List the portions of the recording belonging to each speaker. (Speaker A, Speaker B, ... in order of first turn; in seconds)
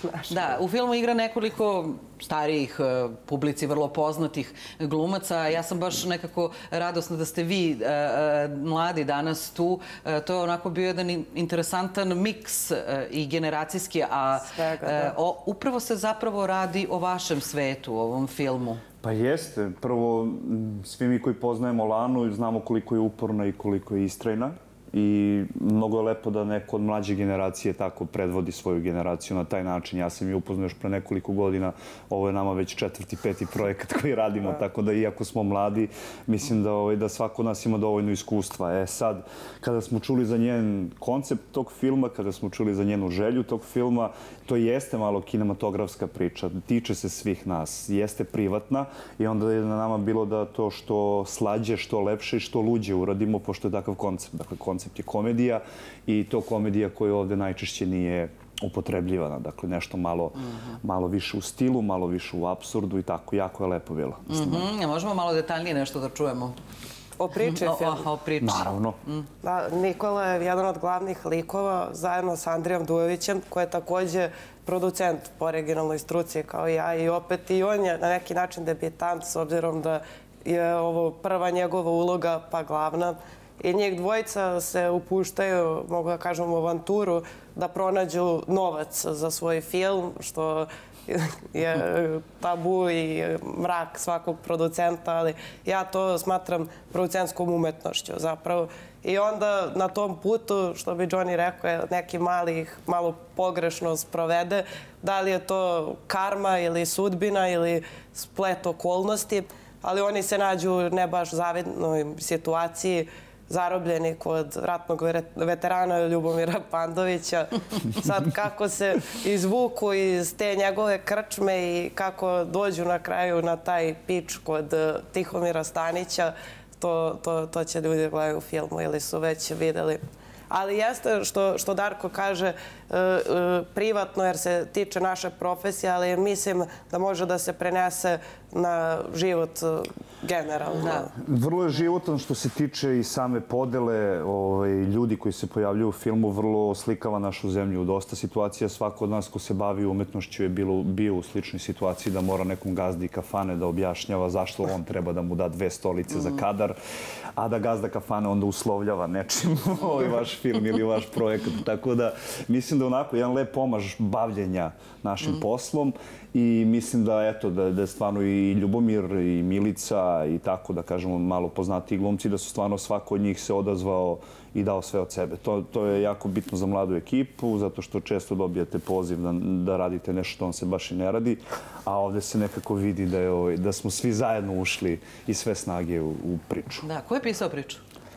Speaker A: 0.3-18.8, 64.3-66.5, 67.4-69.2, 186.8-187.8
Speaker B: 14.4-15.1, 67.2-68.1, 69.4-141.1
Speaker C: 19.0-64.7, 68.4-69.0, 141.2-156.8, 157.3-186.8